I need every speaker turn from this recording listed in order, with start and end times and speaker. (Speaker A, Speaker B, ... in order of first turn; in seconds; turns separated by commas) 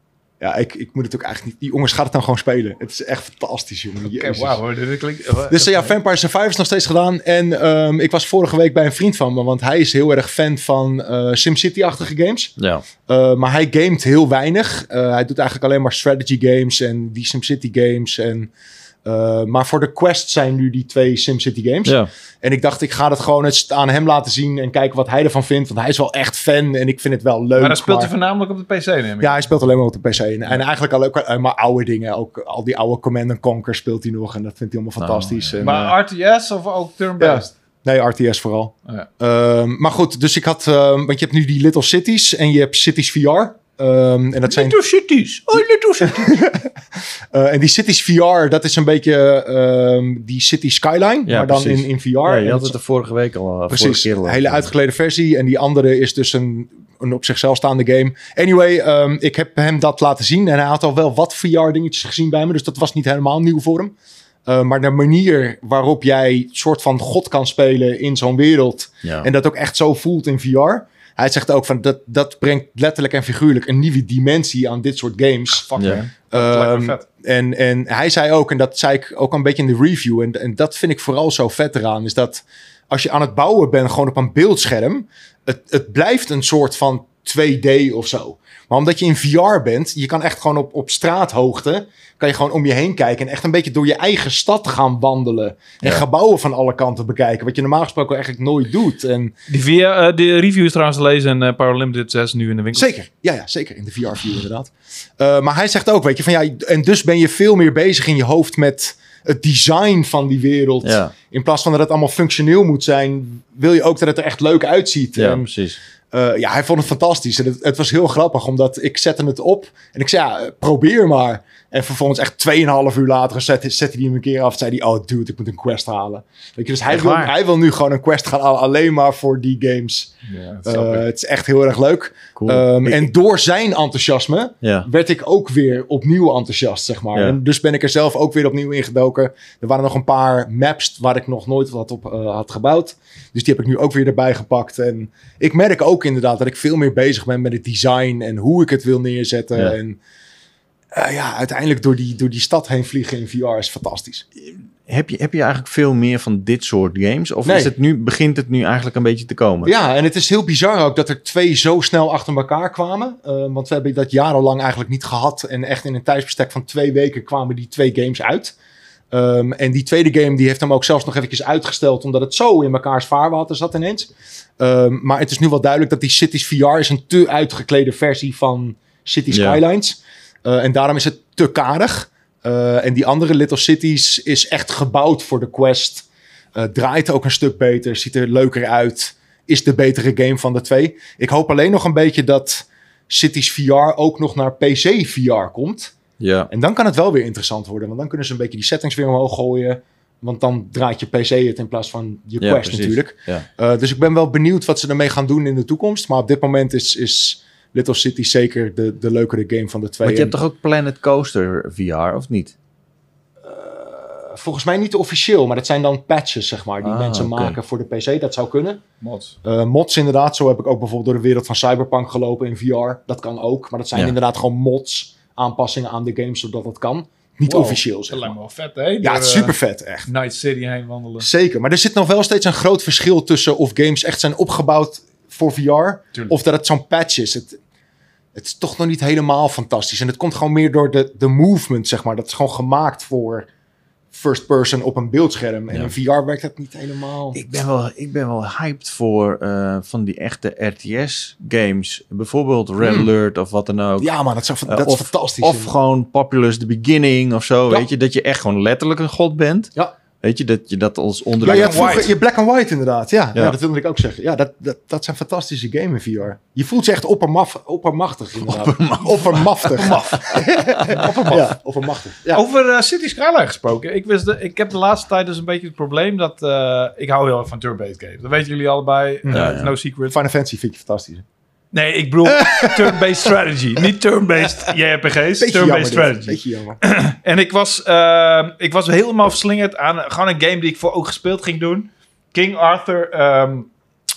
Speaker A: 0.4-4.6, Speaker B: 4.0-5.9, Speaker A: 5.5-12.5, Speaker C: 12.6-12.8, Speaker A: 13.1-18.5, Speaker A: 19.0-28.1, Speaker B: 27.6-29.4, Speaker A: 29.2-35.9, Speaker C: 35.0-35.9, Speaker B: 35.6-37.5, Speaker A: 37.2-44.8, Speaker B: 44.5-46.4, Speaker A: 45.5-46.7, Speaker A: 47.3-52.7, Speaker C: 51.3-54.7, Speaker A: 53.7-63.9, Speaker A: 64.5-75.7, Speaker C: 69.0-69.3, Speaker B: 75.5-77.0, Speaker A: 76.3-99.3, Speaker B: 99.5-102.9, Speaker A: 102.7-115.5, Speaker C: 110.8-111.1, Speaker C: 115.2-115.8, Speaker A: 116.1-130.1, Speaker C: 126.9-127.3, Speaker B: 130.3-131.0, Speaker A: 130.6-150.0, Speaker C: 132.3-133.1, Speaker C: 134.6-134.9, Speaker A: 150.9-154.2, Speaker C: 154.9-159.7, Speaker A: 157.4-157.7, Speaker A: 159.6-168.5, Speaker A: 169.1-195.9, Speaker C: 179.3-179.6, Speaker C: 196.2-196.5, Speaker A: 196.5-210.3, Speaker C: 202.4-203.4, Speaker C: 210.0-212.5, Speaker A: 213.4-218.8, Speaker C: 216.8-217.6, Speaker B: 219.0-219.3, Speaker A: 219.4-228.3, Speaker B: 227.4-229.5, Speaker A: 229.0-230.1, Speaker B: 230.1-231.3, Speaker A: 231.2-237.6, Speaker A: 238.3-243.5, Speaker A: 244.1-247.4, Speaker C: 247.3-254.1, Speaker A: 252.8-253.1, Speaker A: 254.0-255.7, Speaker C: 254.7-262.1, Speaker A: 261.4-272.4, Speaker B: 261.5-262.1, Speaker C: 268.4-270.0, Speaker B: 269.7-271.5, Speaker B: 272.3-280.2, Speaker A: 279.2-281.2, Speaker C: 279.3-279.7, Speaker B: 281.7-293.7, Speaker A: 282.3-283.1, Speaker A: 285.4-286.8